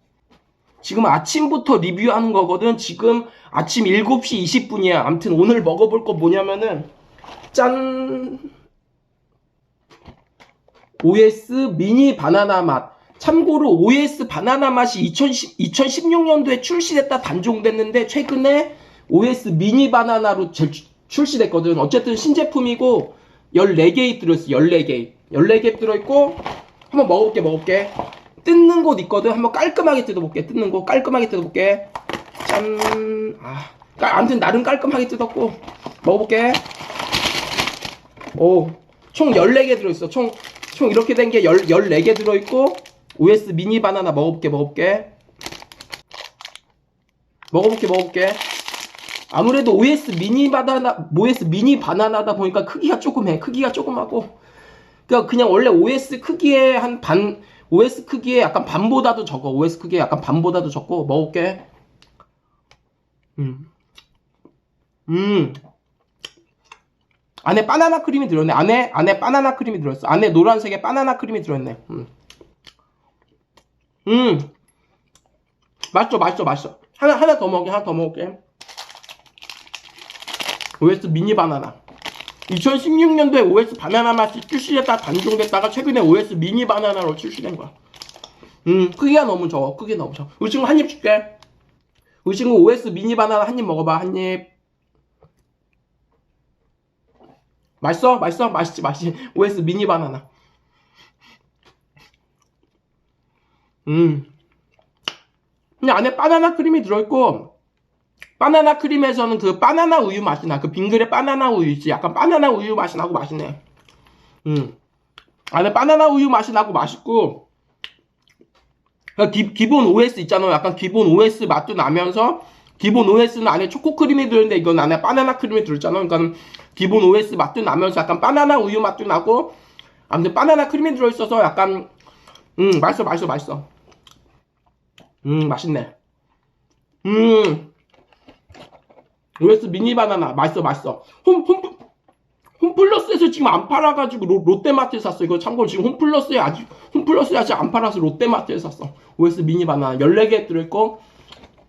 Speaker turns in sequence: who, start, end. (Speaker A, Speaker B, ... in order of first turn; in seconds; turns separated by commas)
Speaker A: 0.8-6.9, Speaker A: 7.5-8.5, Speaker A: 11.0-31.9, Speaker A: 32.4-36.6, Speaker A: 38.3-45.1, Speaker A: 47.5-48.4, Speaker A: 49.3-54.3, Speaker A: 55.1-61.6, Speaker A: 63.4-63.7, Speaker A: 65.1-65.6, Speaker A: 67.4-72.1, Speaker A: 74.0-74.5, Speaker A: 75.9-78.4, Speaker A: 80.8-81.8, Speaker A: 82.5-87.7, Speaker A: 88.6-91.3, Speaker A: 92.2-94.5, Speaker A: 97.8-100.2, Speaker A: 103.8-104.3, Speaker A: 105.8-107.5, Speaker A: 108.4-113.6, Speaker A: 114.4-114.7, Speaker A: 115.5-117.4, Speaker A: 119.2-129.5, Speaker A: 130.1-131.9, Speaker A: 132.6-133.7, Speaker A: 135.2-135.9, Speaker A: 137.0-137.7, Speaker A: 139.4-141.8, Speaker A: 142.6-151.0